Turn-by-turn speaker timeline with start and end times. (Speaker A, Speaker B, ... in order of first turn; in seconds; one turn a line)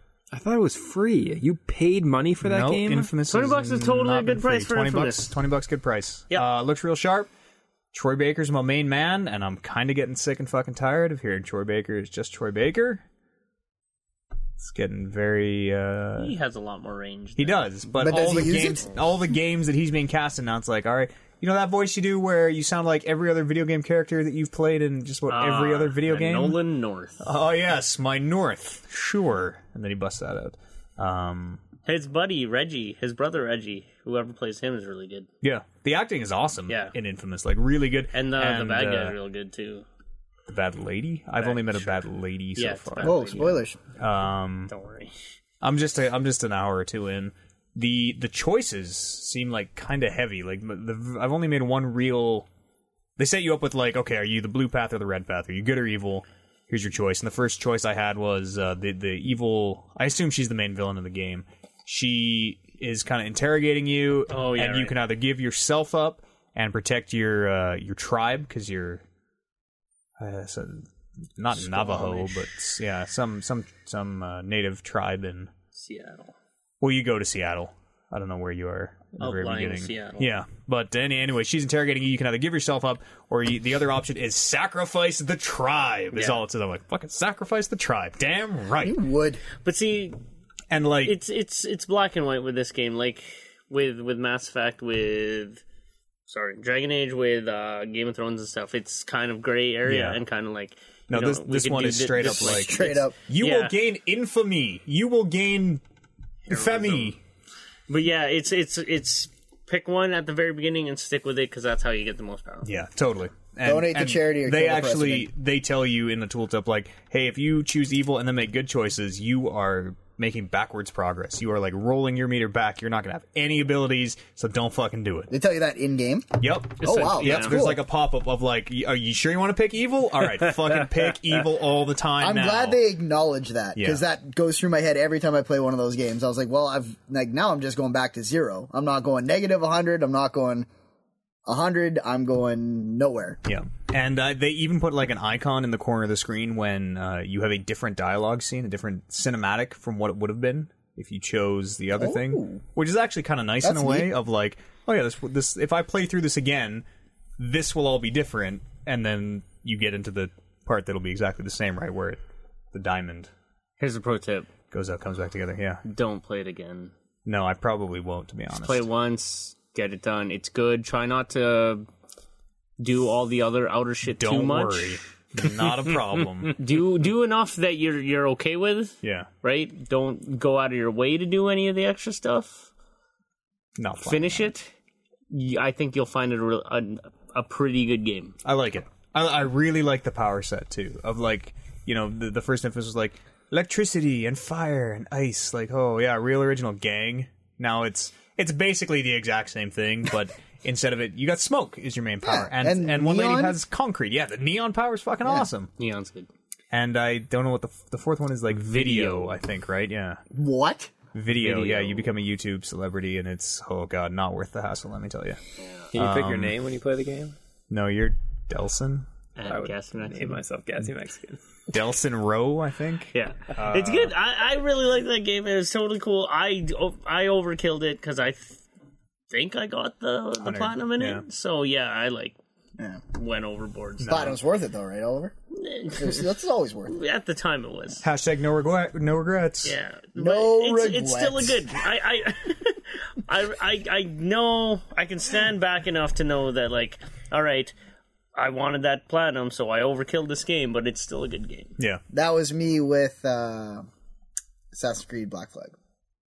Speaker A: 0.3-3.1
Speaker B: 2.4-7.3
Speaker C: 3.3-5.3
Speaker B: 7.9-13.0
Speaker B: 14.6-16.4
Speaker C: 16.2-18.7
Speaker B: 17.4-26.6
Speaker D: 18.0-18.9
Speaker C: 25.3-27.2
Speaker B: 27.2-31.6
Speaker C: 31.9-35.3
Speaker B: 35.4-39.2
Speaker C: 36.7-36.9
Speaker C: 38.1-39.8
Speaker B: 40.5-44.7
Speaker C: 41.4-43.6
Speaker D: 43.0-43.8
Speaker C: 44.7-45.1
Speaker B: 45.6-52.5
Speaker B: 53.2-69.0
Speaker C: 64.3-65.0
Speaker B: 70.2-75.5
Speaker C: 71.5-72.5
Speaker C: 75.7-76.3
Speaker B: 76.8-89.0
Speaker C: 79.2-80.4
Speaker C: 86.1-86.4
Speaker D: 88.8-89.4
Speaker C: 89.6-90.2
Speaker B: 90.7-91.2
Speaker C: 91.0-95.6
Speaker C: 96.3-103.7
Speaker B: 99.8-100.2
Speaker B: 101.1-105.8
Speaker D: 102.2-103.2
Speaker B: 106.5-107.2
Speaker C: 106.5-107.2
Speaker C: 107.9-112.7
Speaker B: 112.6-125.3
Speaker D: 113.6-115.3
Speaker D: 125.3-127.8
Speaker B: 126.4-132.8
Speaker C: 126.8-127.6
Speaker D: 132.2-140.7
Speaker B: 133.8-134.0
Speaker D: 141.4-143.4
Speaker B: 143.4-156.8
Speaker D: 151.9-152.6
Speaker D: 153.6-154.1
Speaker B: 157.4-162.2
Speaker B: 162.7-163.3
Speaker C: 163.8-164.5
Speaker B: 164.7-165.8
Speaker C: 165.8-166.9
Speaker B: 167.2-168.8
Speaker C: 168.6-171.9
Speaker C: 172.8-175.0
Speaker B: 174.1-176.6
Speaker C: 176.4-182.7
Speaker B: 179.0-179.3
Speaker B: 183.8-184.5
Speaker C: 184.0-184.7
Speaker C: 185.3-188.3
Speaker B: 188.4-205.7
Speaker D: 202.2-203.5
Speaker C: 205.8-206.3
Speaker B: 206.7-210.2
Speaker C: 208.5-209.4
Speaker D: 210.3-210.9
Speaker B: 211.1-215.4
Speaker C: 211.3-212.1
Speaker C: 215.6-215.9
Speaker A: 215.9-217.3
Speaker B: 215.9-216.6
Speaker B: 217.7-219.1
Speaker C: 219.3-220.4
Speaker A: 219.4-221.4
Speaker B: 221.7-224.1
Speaker C: 223.1-228.6
Speaker C: 229.3-232.4
Speaker B: 230.4-231.2
Speaker C: 233.1-234.4
Speaker B: 234.0-234.3
Speaker D: 234.1-235.3
Speaker C: 235.5-236.3
Speaker D: 236.0-237.0
Speaker C: 236.9-238.0
Speaker B: 238.0-239.8
Speaker C: 239.6-247.7
Speaker D: 240.2-241.7
Speaker C: 248.3-251.8
Speaker B: 251.8-252.0
Speaker D: 252.1-253.9
Speaker D: 254.7-255.7